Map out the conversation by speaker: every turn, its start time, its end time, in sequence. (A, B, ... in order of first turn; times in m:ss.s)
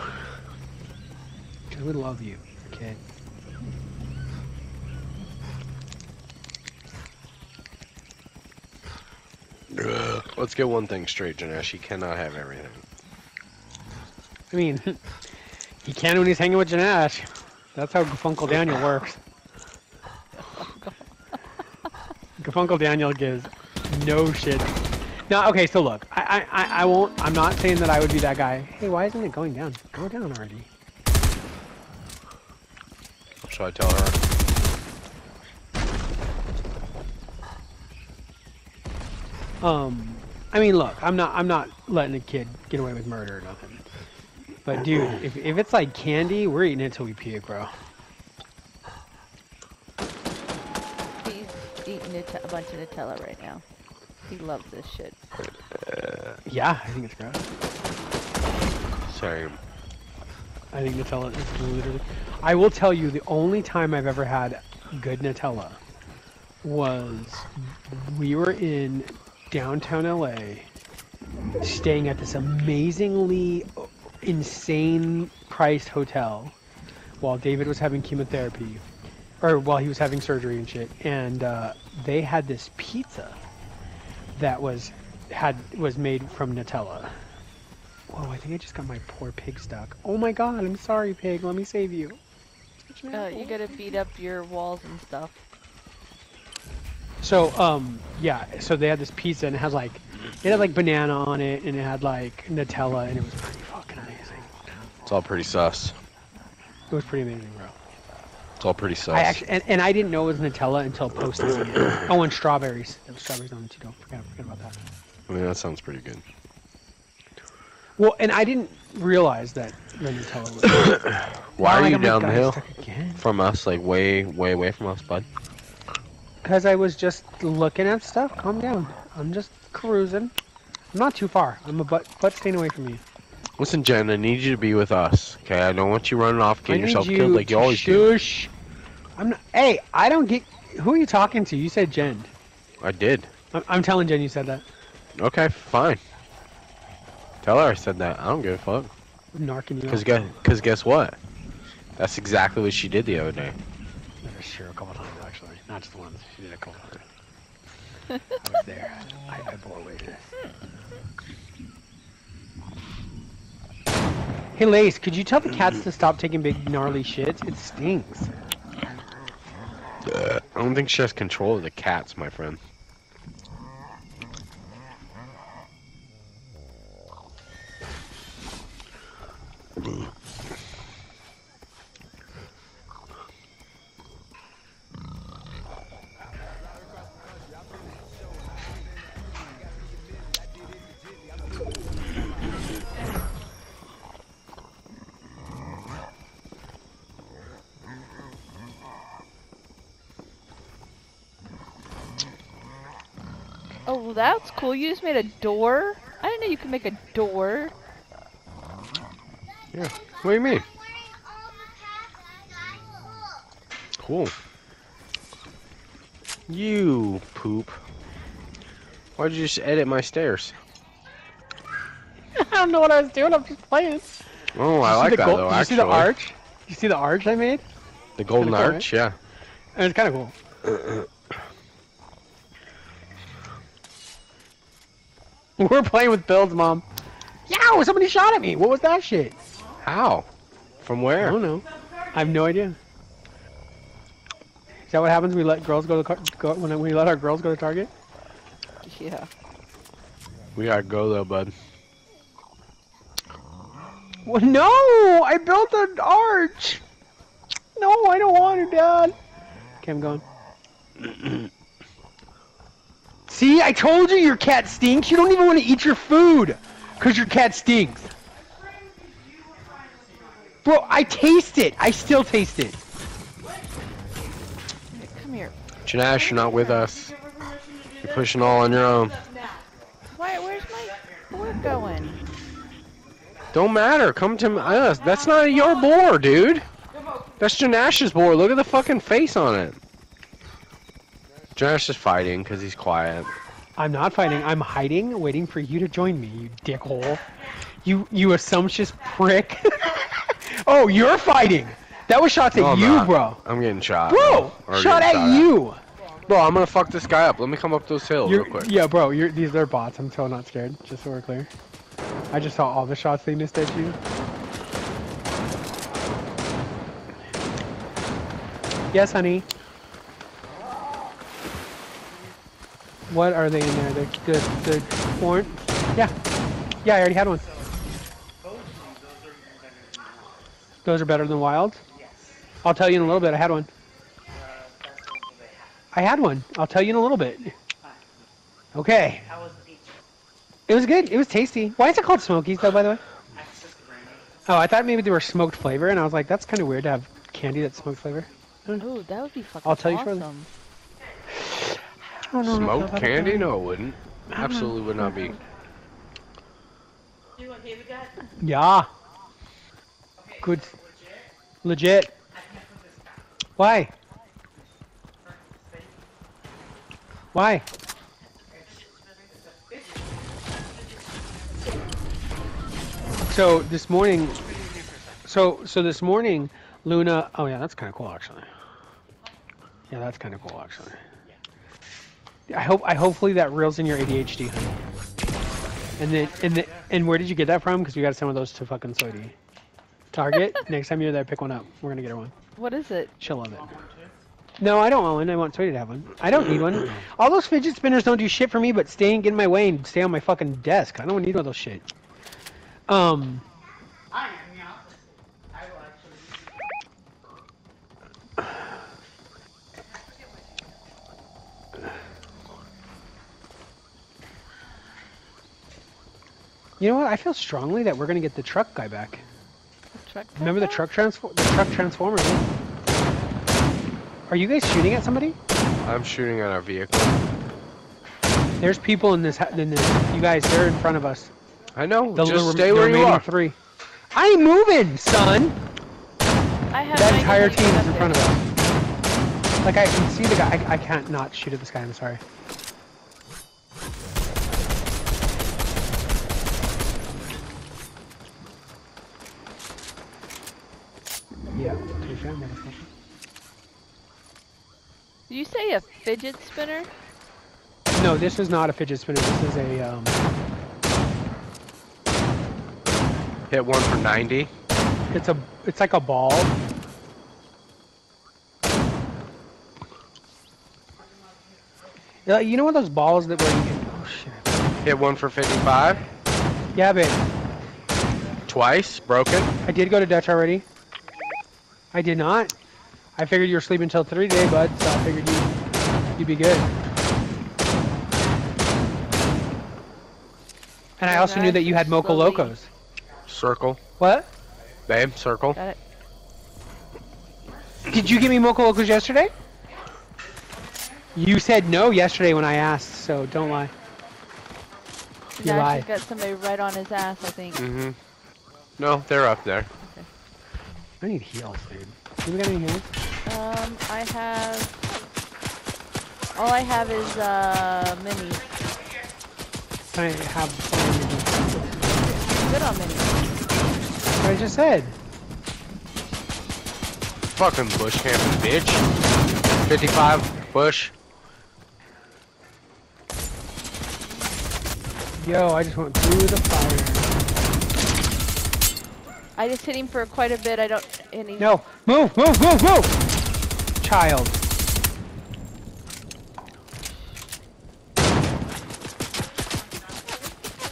0:01.7-0:03.0 A
0:09.7-0:12.8 B
0:14.5-0:15.0 A
0:15.8-0:19.2 A
0:20.5-0:21.0 C
0:22.4-0:24.8 A
0:25.3-0:30.7 A
0:33.4-0:34.2 B
0:39.6-0:43.8 A
0:44.6-0:47.7 A
0:51.2-0:53.6 C
0:54.3-0:55.2 C
0:55.8-0:56.4 B
0:56.5-0:57.5 A
0:59.1-0:59.6 B
1:00.7-1:05.8 A
1:06.6-1:10.7 A
1:11.6-1:16.5 A
1:17.2-1:18.8 A
1:19.4-1:23.4 A
1:24.4-1:27.2 A
1:28.1-1:32.2 A
1:32.9-1:34.0 A
1:33.1-1:35.4 C
1:37.2-1:44.5 A
1:45.1-1:46.0 B
1:46.9-1:47.8 A
1:48.6-1:49.4 B
1:49.1-1:54.8 A
1:55.3-1:56.2 B
1:58.0-2:01.0 A
2:00.8-2:02.6 B
2:01.6-2:03.2 A
2:03.2-2:05.3 B
2:06.4-2:10.3 A
2:10.9-2:13.0 A
2:13.6-2:18.1 B
2:16.7-2:18.5 A
2:19.2-2:22.3 A
2:22.8-2:23.3 B
2:23.5-2:24.6 A
2:25.2-2:26.0 B
2:27.4-2:28.9 B
2:29.3-2:30.3 A
2:29.9-2:31.2 B
2:32.0-2:33.6 B
2:34.2-2:37.0 A
2:38.4-2:40.3 A
2:44.6-2:48.3 A
2:50.0-2:52.6 B
3:23.9-3:27.7 C
3:29.7-3:30.7 B
3:34.0-3:34.3 B
3:36.5-3:37.8 B
3:39.2-3:40.6 B
3:42.4-3:44.1 A
3:44.5-3:46.1 B
3:44.8-3:47.6 A
3:48.2-3:49.2 B
3:48.4-3:48.9 A
3:49.8-3:50.4 A
3:50.6-3:51.1 B
3:55.6-3:56.8 A
3:57.5-3:59.4 A
3:59.8-4:00.3 B
4:00.8-4:01.4 B
4:01.2-4:02.8 A
4:01.7-4:02.2 D
4:04.9-4:07.9 A
4:08.8-4:09.3 C
4:10.6-4:11.6 B
4:14.2-4:16.8 A
4:17.8-4:19.2 A
4:19.8-4:20.2 A
4:23.3-4:28.1 A
4:28.4-4:30.9 D
4:30.6-4:32.8 A
4:33.4-4:33.8 D
4:34.9-4:35.6 C
4:35.9-4:37.1 B
4:36.1-4:39.7 D
4:36.4-4:36.8 C
4:38.0-4:39.2 B
4:40.1-4:42.2 C
4:43.5-4:46.7 B
4:44.7-4:45.9 D
4:46.9-4:47.4 D
4:47.4-4:49.8 B
4:51.6-4:53.3 B
4:53.8-4:57.2 A
4:57.8-5:03.4 A
5:02.5-5:05.5 B
5:04.1-5:05.8 A
5:06.3-5:08.8 B
5:08.2-5:11.5 A
5:12.3-5:14.0 A
5:18.9-5:19.5 A
5:23.1-5:26.1 A
5:26.8-5:27.4 A
5:30.8-5:31.8 A
5:32.6-5:33.7 A
5:35.9-5:37.6 A
5:38.7-5:39.3 A
5:40.7-5:43.0 A
5:44.5-5:48.9 A
5:48.8-5:50.5 C
5:49.6-5:50.2 A
5:51.3-5:53.5 A
5:52.4-5:55.4 B
5:54.3-5:55.2 A
5:57.4-5:58.1 D
5:58.4-5:58.9 A
6:00.4-6:00.8 A
6:01.6-6:02.2 A
6:03.6-6:03.9 A
6:07.3-6:07.7 A
6:13.3-6:14.5 A
6:15.3-6:18.5 A
6:19.9-6:21.0 A
6:22.5-6:24.8 A
6:26.0-6:29.4 A
6:30.1-6:32.3 A
6:32.6-6:33.2 C
6:33.2-6:33.8 A
6:34.6-6:41.8 A
6:42.9-6:43.4 A
6:56.8-6:59.2 A
6:59.9-7:00.8 C
7:00.4-7:02.5 A
7:04.3-7:05.4 A
7:05.8-7:07.2 B
7:08.6-7:11.3 A
7:11.8-7:13.3 B
7:12.2-7:13.6 A
7:14.1-7:15.6 A
7:16.7-7:18.5 C
7:16.9-7:18.5 A
7:19.6-7:22.2 A
7:31.5-7:32.9 A
7:35.3-7:36.9 C
7:37.9-7:40.2 A
7:43.5-7:44.5 B
7:45.1-7:46.6 A
7:52.3-7:54.8 A
7:54.8-7:56.1 B
7:56.7-7:57.2 A
7:58.5-7:59.5 B
7:59.6-8:00.7 A
8:01.9-8:02.5 A
8:03.2-8:05.6 A
8:06.2-8:06.7 A
8:11.0-8:12.7 A
8:11.1-8:12.5 C
8:13.3-8:13.8 B
8:14.0-8:14.3 A
8:14.9-8:15.6 B
8:17.9-8:19.3 A
8:21.2-8:23.7 A
8:25.4-8:27.6 C
8:25.4-8:25.9 A
8:27.6-8:28.0 B
8:28.8-8:29.7 B
8:29.8-8:30.1 C
8:31.0-8:32.9 A
8:33.3-8:34.9 C
8:36.4-8:38.5 C
8:39.9-8:41.8 A
8:42.1-8:43.3 C
8:44.2-8:45.0 A
8:47.3-8:48.9 B
8:49.6-8:50.9 B
8:55.2-8:57.1 A
8:59.4-9:01.5 C
9:01.4-9:03.0 A
9:03.8-9:04.4 A